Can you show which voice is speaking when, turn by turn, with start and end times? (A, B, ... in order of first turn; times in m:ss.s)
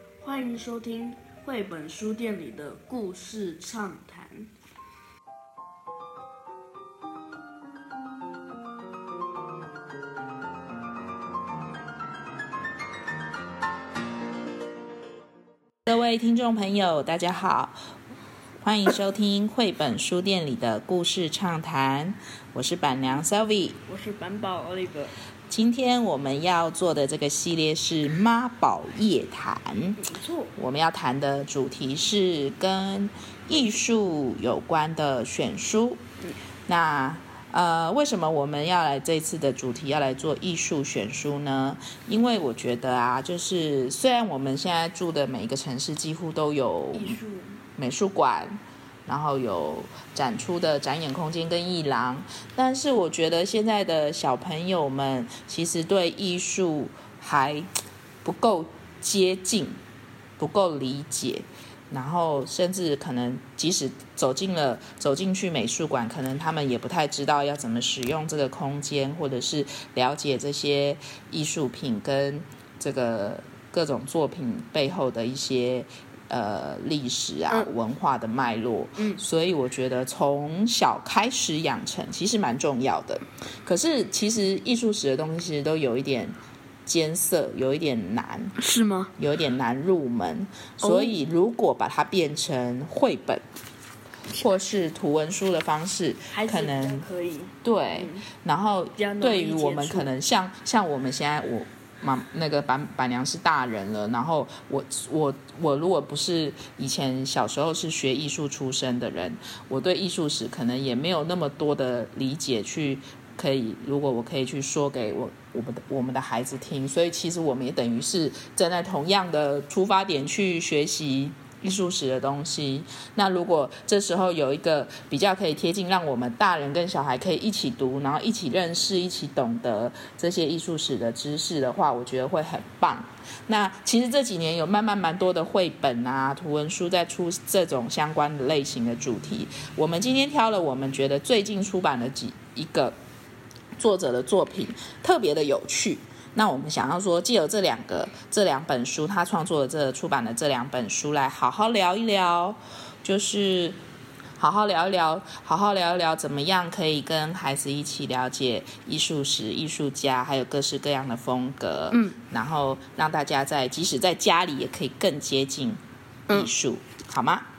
0:00.2-0:04.5 A
0:15.9-0:17.8 B
0:18.6-0:23.8 B
0:23.9-0:25.1 A
0:25.5-0:30.0 B
0:30.0-0:30.5 A
0:30.6-0:36.0 B
0:36.7-0:47.2 B
0:46.9-0:47.6 A
0:47.8-0:57.7 B
0:58.2-0:59.8 B
1:00.4-1:28.5 B
1:19.0-1:19.2 A
1:28.6-1:29.1 A
1:29.2-1:33.4 B
1:30.8-1:31.1 A
1:34.4-1:37.0 B
1:36.3-1:38.3 A
1:37.6-2:23.0 B
1:39.0-1:40.1 A
2:23.8-2:33.8 B
2:34.4-2:47.5 B
2:41.9-2:42.2 A